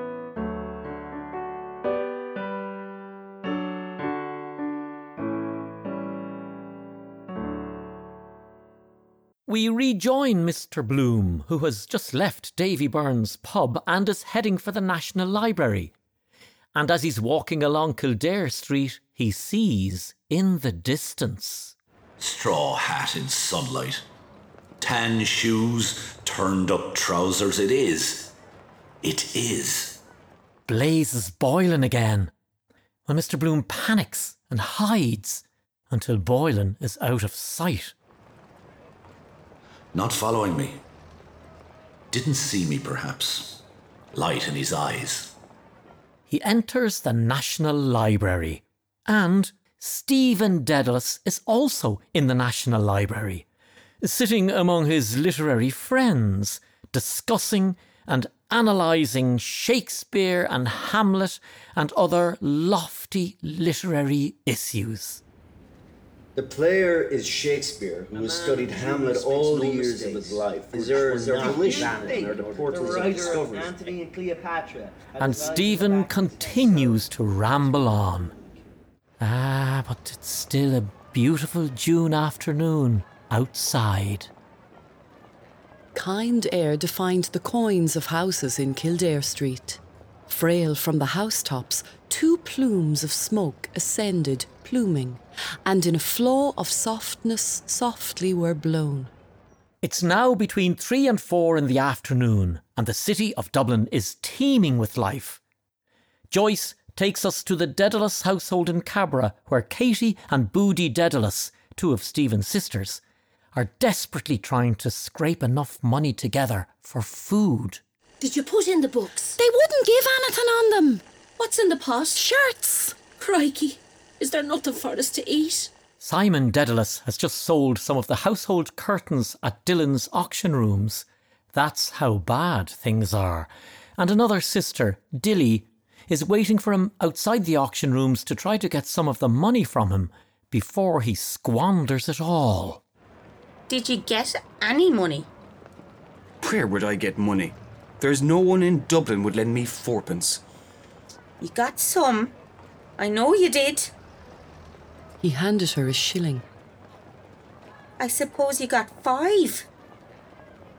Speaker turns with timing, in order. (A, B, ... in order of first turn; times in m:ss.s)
0:09.5-0:15.9 A
0:16.7-0:21.7 A
0:22.2-0:24.0 B
0:24.8-0:28.3 B
0:29.0-0:30.0 B
0:30.7-0:32.3 A
0:33.0-0:37.9 A
0:39.9-0:40.8 B
0:42.1-0:43.6 B
0:44.1-0:45.3 B
0:46.3-0:53.4 A
0:54.0-1:05.2 A
1:06.4-1:14.0 C
1:08.1-1:08.8 D
1:11.0-1:17.0 D
1:15.2-1:18.3 A
1:19.2-1:24.3 A
1:25.9-1:39.1 E
1:39.8-1:45.4 A
1:46.3-1:53.0 A
1:53.5-1:57.8 A
1:58.2-1:59.4 F
1:59.4-2:01.0 E
2:01.4-2:02.2 F
2:02.2-2:03.0 E
2:03.2-2:05.7 F
2:06.0-2:22.8 A
2:23.7-2:25.3 G
2:26.4-2:30.4 H
2:31.4-2:32.3 G
2:33.0-2:33.9 G
2:35.2-2:36.4 E
2:38.0-2:39.7 G